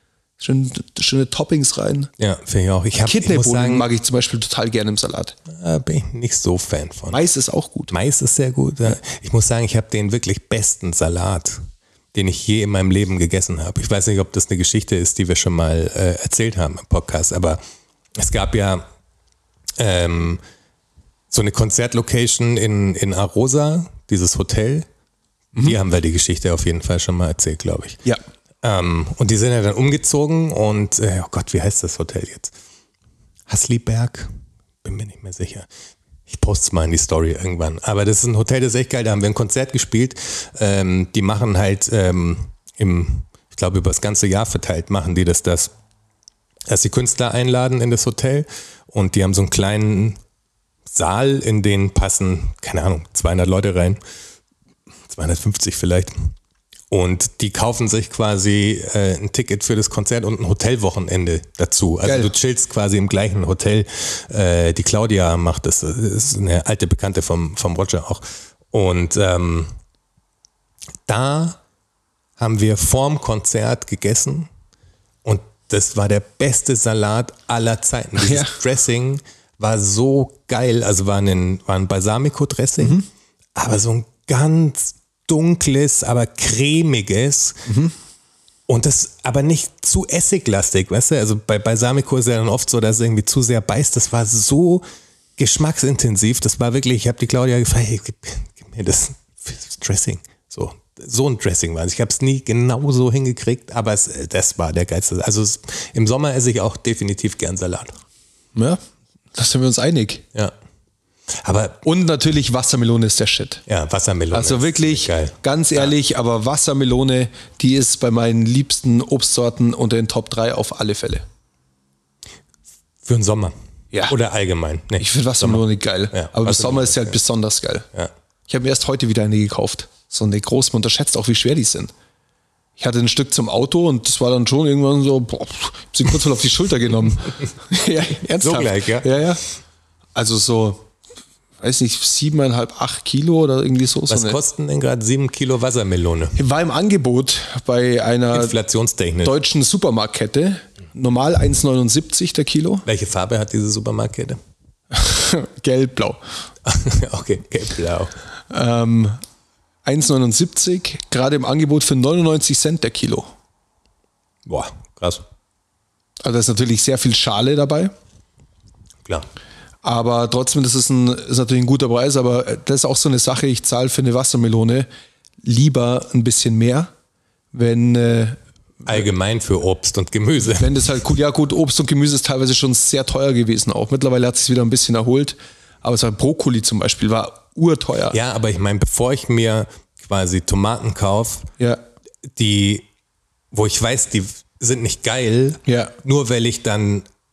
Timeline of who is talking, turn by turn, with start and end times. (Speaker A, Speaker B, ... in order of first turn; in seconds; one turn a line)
Speaker A: 0.4-2.1
Speaker B: 2.2-3.9
Speaker A: 3.0-5.3
Speaker B: 5.5-7.2
Speaker A: 7.1-7.9
Speaker B: 7.9-11.6
Speaker B: 12.1-17.6
Speaker B: 18.2-18.8
Speaker B: 19.8-20.4
Speaker B: 21.3-24.9
Speaker B: 25.6-28.0
Speaker B: 28.6-32.5
Speaker B: 33.5-34.3
Speaker B: 34.8-35.7
Speaker B: 36.3-45.7
Speaker B: 46.7-50.2
Speaker B: 50.9-54.0
Speaker B: 55.1-56.3
Speaker B: 56.9-69.7
Speaker A: 62.0-62.3
Speaker B: 71.1-71.6
Speaker B: 72.4-74.5
Speaker B: 75.2-83.0
Speaker A: 78.2-78.5
Speaker A: 82.8-83.1
Speaker B: 83.5-87.6
Speaker A: 87.7-87.9
Speaker B: 88.7-94.8
Speaker B: 95.4-107.9
Speaker A: 108.5-108.8
Speaker A: 109.3-110.2
Speaker B: 111.3-111.8
Speaker A: 111.8-113.6
Speaker B: 113.7-115.9
Speaker A: 114.3-121.2
Speaker B: 123.0-123.5
Speaker B: 124.1-127.2
Speaker A: 125.0-127.9
Speaker A: 128.5-131.9
Speaker A: 132.8-139.4
Speaker B: 138.4-139.1
Speaker A: 140.2-140.9
Speaker A: 141.6-144.4
Speaker B: 144.1-146.4
Speaker A: 146.4-148.6
Speaker B: 148.3-149.4
Speaker A: 149.2-152.9
Speaker B: 152.9-154.4
Speaker A: 154.9-156.2
Speaker B: 156.7-158.1
Speaker A: 158.5-159.2
Speaker A: 159.8-163.3
Speaker B: 164.5-165.2
Speaker A: 166.2-167.9
Speaker A: 169.8-174.9
Speaker A: 175.4-176.9
Speaker A: 177.5-179.0
Speaker B: 178.9-180.9
Speaker A: 180.5-188.2
Speaker B: 188.1-191.5
Speaker B: 192.3-192.9
Speaker B: 193.5-197.1
Speaker A: 195.7-195.9